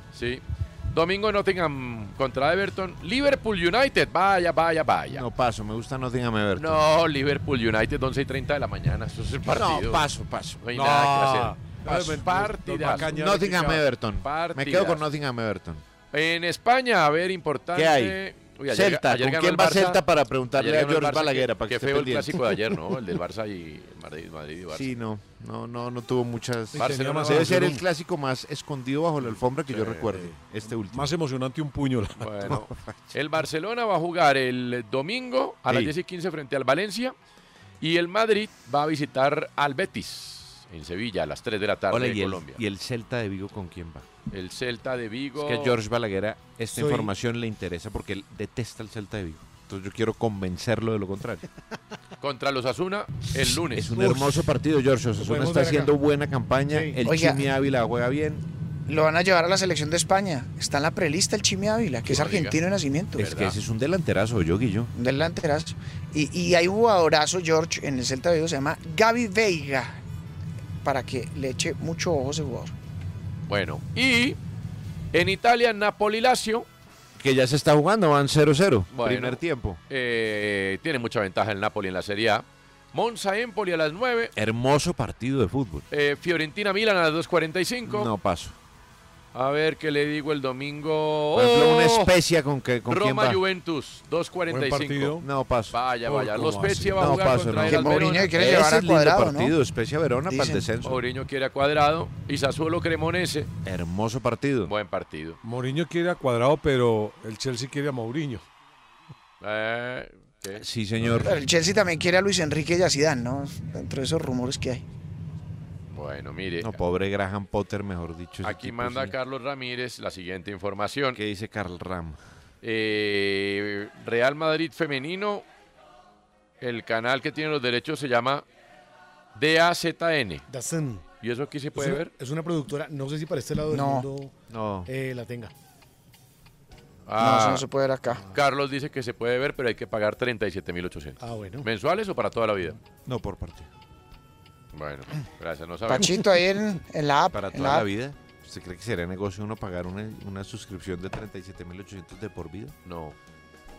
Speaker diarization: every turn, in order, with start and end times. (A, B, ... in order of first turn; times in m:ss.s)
0:00.1-0:05.3 A
0:05.1-0:06.8 B
0:06.6-0:10.0 A
0:09.4-0:10.6 B
0:10.6-0:15.0 A
0:10.7-0:13.8 C
0:13.0-0:15.8 B
0:16.1-0:20.0 A
0:17.7-0:18.2 B
0:18.7-0:22.5 B
0:20.6-0:24.9 A
0:24.7-0:31.1 B
0:26.7-0:27.8 C
0:26.8-0:27.8 A
0:29.7-0:30.3 A
0:30.9-0:32.5 C
0:32.2-0:37.1 A
0:32.5-0:32.9 B
0:35.7-0:35.9 B
0:37.8-0:42.6 A
0:41.9-0:44.1 B
0:44.3-0:45.8 A
0:45.4-0:51.4 B
0:46.7-0:47.1 D
0:52.2-0:54.0 A
0:53.7-0:58.4 B
0:55.2-0:55.9 D
0:56.7-0:57.0 D
0:57.0-0:57.4 E
0:58.9-1:03.2 E
1:02.1-1:02.6 A
1:03.2-1:04.9 B
1:03.2-1:03.6 A
1:04.9-1:10.0 E
1:10.8-1:12.7 E
1:13.5-1:14.4 A
1:15.1-1:16.7 A
1:17.2-1:19.8 B
1:18.9-1:24.3 A
1:24.4-1:25.9 B
1:25.9-1:28.1 A
1:27.9-1:28.6 B
1:29.3-1:32.1 A
1:31.3-1:33.4 B
1:32.9-1:38.5 A
1:34.5-1:35.2 C
1:35.2-1:35.8 B
1:36.0-1:37.1 C
1:36.8-1:41.0 B
1:37.7-1:39.6 E
1:40.3-1:40.6 E
1:40.8-1:43.5 A
1:43.6-1:44.7 B
1:44.7-1:45.4 A
1:45.4-1:48.4 C
1:49.4-1:50.6 A
1:50.6-1:51.4 B
1:51.2-1:54.8 E
1:55.9-1:56.8 A
1:56.6-1:59.1 B
1:58.4-2:01.2 A
2:01.1-2:02.2 B
2:02.6-2:05.4 A
2:06.6-2:08.4 A
2:09.4-2:10.4 A
2:10.5-2:11.0 D
2:11.2-2:12.1 A
2:11.8-2:14.3 D
2:13.7-2:14.1 E
2:14.5-2:14.9 B
2:14.9-2:15.5 D
2:17.1-2:17.7 A
2:17.2-2:18.2 E
2:18.3-2:22.8 A
2:21.2-2:21.7 D
2:23.0-2:23.7 B
2:24.7-2:26.2 A
2:25.9-2:27.9 E
2:27.3-2:32.7 B
2:32.8-2:33.2 A